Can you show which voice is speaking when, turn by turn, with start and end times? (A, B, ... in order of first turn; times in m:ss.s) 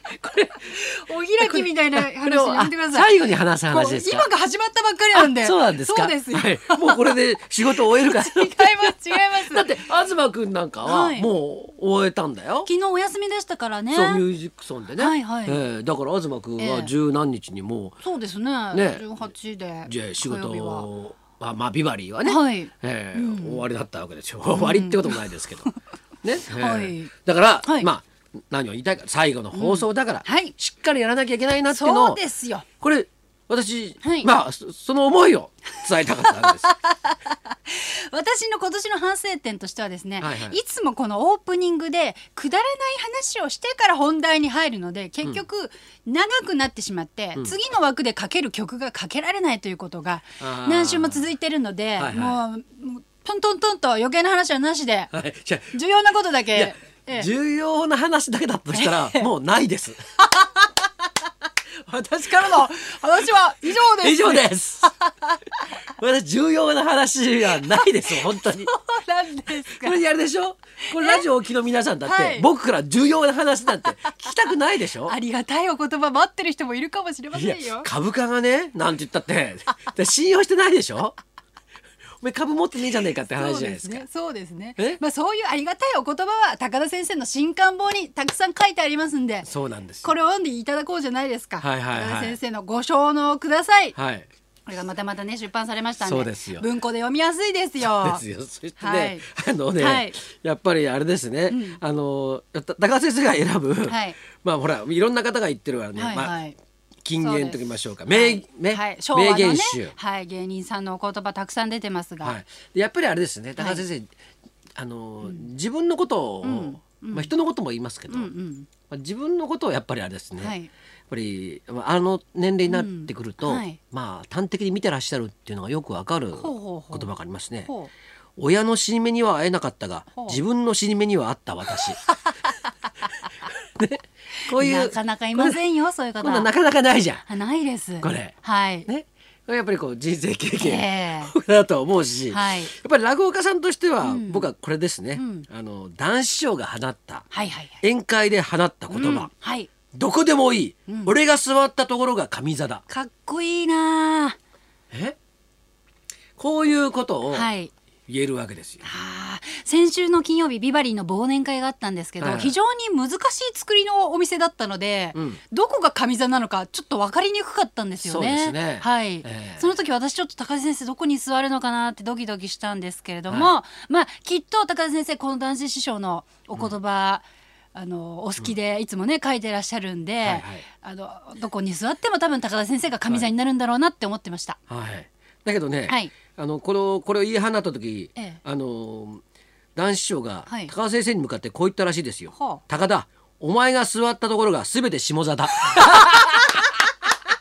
0:00.2-0:00.8 A
0:00.7-0:03.2 B
0:01.4-0:04.3 A
0:03.7-0:09.8 B
0:05.1-0:12.7 A
0:10.8-0:11.3 B
0:12.6-0:14.2 B
0:13.9-0:18.0 A
0:15.0-0:15.6 B
0:16.6-0:16.9 B
0:18.0-0:20.9 B
0:18.7-0:19.3 A
0:19.9-0:25.7 A
0:22.2-0:23.6 B
0:24.5-0:25.7 B
0:26.2-0:32.2 A
0:26.5-0:27.1 B
0:29.5-0:30.5 B
0:31.7-0:32.7 B
0:32.8-0:36.7 A
0:34.0-0:34.3 B
0:36.2-0:55.1 B
0:40.2-0:40.6 A
0:50.4-0:51.3 A
0:52.0-0:52.4 A
0:55.1-0:55.8 A
0:55.7-0:57.3 B
0:56.5-1:00.1 A
0:58.7-0:59.3 B
1:00.2-1:00.9 B
1:01.9-1:05.4 B
1:02.2-1:02.6 A
1:03.7-1:04.9 A
1:06.0-1:08.7 A
1:07.6-1:10.0 B
1:09.6-1:15.2 A
1:10.9-1:11.2 B
1:12.0-1:12.5 B
1:13.9-1:14.3 B
1:15.0-1:17.9 B
1:17.3-1:21.2 A
1:22.2-1:24.1 A
1:23.2-1:29.5 B
1:29.4-1:30.1 A
1:30.0-1:34.0 B
1:31.6-1:32.4 A
1:34.0-1:34.3 A
1:34.7-1:38.2 B
1:36.0-1:36.7 A
1:37.8-1:46.4 A
1:38.8-1:39.2 B
1:39.8-1:40.2 B
1:41.5-1:41.8 B
1:43.9-1:44.2 B
1:46.0-1:46.6 B
1:47.0-1:50.0 A
1:47.2-1:52.4 B
1:52.2-1:54.1 A
1:53.6-1:53.8 B
1:54.8-1:58.3 A
1:56.4-1:57.3 B
1:58.1-1:58.7 B
1:58.9-2:00.6 A
2:00.4-2:00.7 B
2:01.1-2:07.7 A
2:02.7-2:03.8 B
2:06.4-2:07.1 B
2:07.7-2:07.9 B
2:08.4-2:12.0 A
2:12.0-2:12.3 B
2:13.4-2:15.6 A
2:14.5-2:16.5 B
2:16.2-2:17.3 A
2:17.3-2:18.9 B
2:18.0-2:27.3 A
2:20.6-2:21.3 B
2:22.3-2:22.7 B
2:24.0-2:24.5 B
2:25.2-2:25.5 B
2:27.3-2:27.8 B
2:27.8-2:29.3 A
2:28.9-2:29.7 B
2:29.9-2:32.8 A
2:30.9-2:31.1 B
2:32.9-2:34.4 B
2:34.9-2:35.2 A
2:36.4-2:37.5 A
2:37.3-2:37.7 B
2:38.1-2:38.9 A
2:38.8-3:04.6 B
2:42.2-2:42.6 A
2:45.2-2:45.4 A
2:48.0-2:49.8 A
2:53.3-2:53.5 A
3:00.2-3:00.6 A
3:04.7-3:09.2 A
3:05.9-3:06.1 B
3:09.8-3:16.4 A
3:10.5-3:10.7 B
3:12.3-3:12.6 B
3:15.7-3:16.7 B